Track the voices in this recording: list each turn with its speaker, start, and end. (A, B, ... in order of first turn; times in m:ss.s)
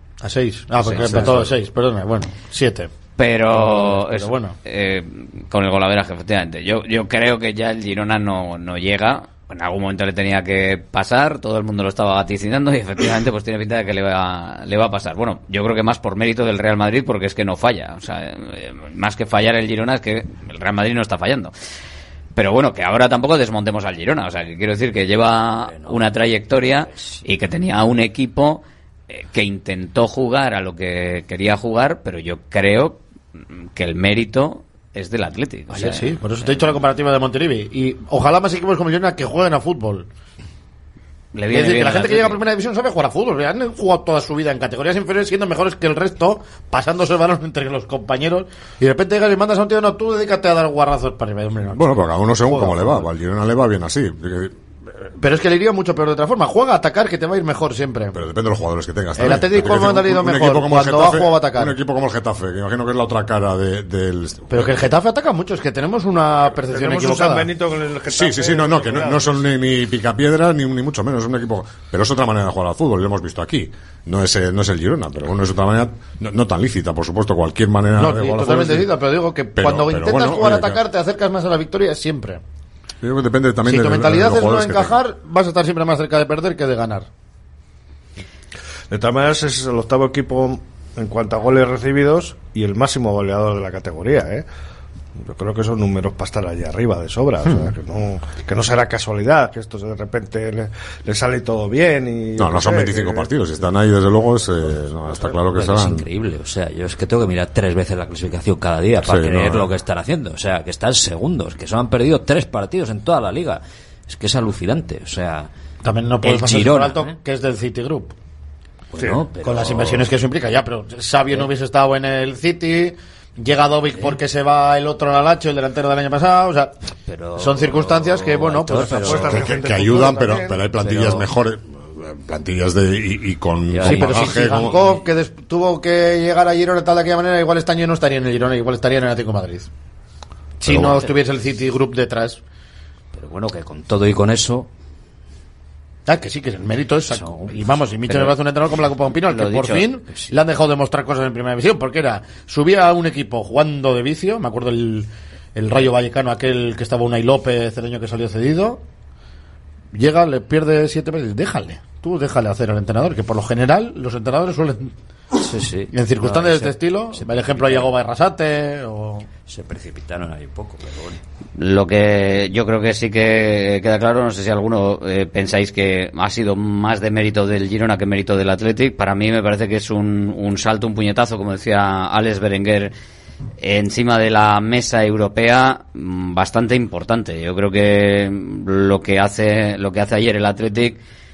0:00.2-0:02.9 A
0:00.8-0:01.3 B
0:01.0-0:01.5 C
0:03.2-0:21.5 B
0:03.5-0:04.6 A
0:22.3-0:33.0 B
0:25.7-0:26.0 D
0:33.7-0:36.4 B
0:35.7-0:40.1 A
0:41.3-0:42.4 B
0:41.5-0:53.1 A
0:51.7-0:54.6 C
0:55.2-0:58.2 A
0:58.1-1:04.7 C
0:59.1-1:01.7 A
1:04.5-1:07.5 A
1:06.7-1:09.4 E
1:08.1-1:18.9 C
1:18.0-1:22.4 A
1:19.6-1:20.8 C
1:23.0-1:25.0 C
1:23.6-1:27.1 A
1:28.9-1:34.4 E
1:35.3-1:43.3 E
1:42.4-1:46.0 C
1:45.6-1:53.6 D
1:49.0-1:49.7 C
1:54.2-1:55.4 D
1:55.8-1:58.1 A
1:59.0-1:59.3 E
1:59.4-2:06.7 A
2:07.4-2:09.4 A
2:09.0-2:10.7 E
2:09.4-2:14.8 C
2:13.8-2:19.7 A
2:20.6-2:22.4 A
2:23.2-2:24.6 F
2:26.1-2:38.8 A
2:29.2-2:29.9 B
2:39.9-2:44.9 A
2:45.5-2:45.9 F
2:45.9-2:49.3 A
2:46.4-2:46.6 F
2:49.5-2:51.1 F
2:51.6-3:02.9 B
3:03.6-3:11.0 B